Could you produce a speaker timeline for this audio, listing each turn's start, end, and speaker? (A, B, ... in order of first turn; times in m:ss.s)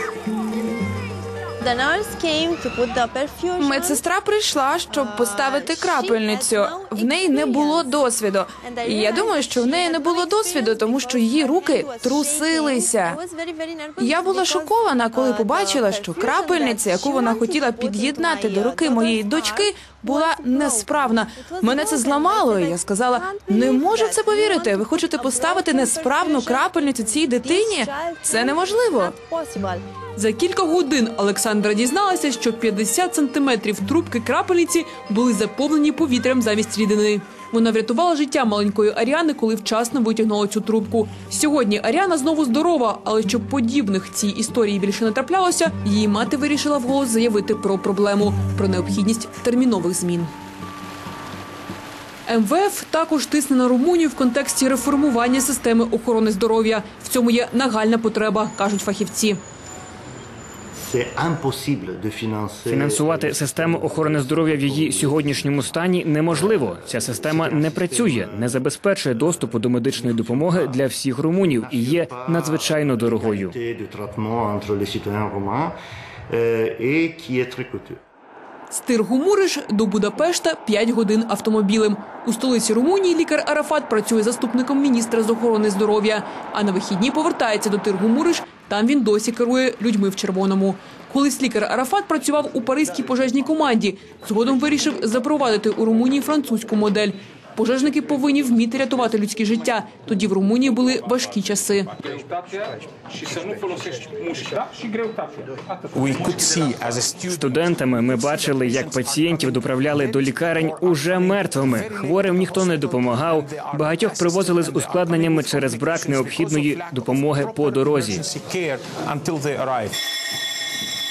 0:01.6-0:04.1 A
0:03.6-0:13.2 B
0:04.9-0:29.8 A
0:14.0-0:29.1 B
0:30.2-0:50.3 C
0:52.3-0:59.4 C
1:00.8-1:08.6 D
1:02.7-1:13.6 E
1:09.2-1:10.9 D
1:11.4-1:15.8 D
1:16.3-1:18.0 D
1:18.7-1:42.0 C
1:42.2-2:00.0 F
1:47.3-1:58.2 E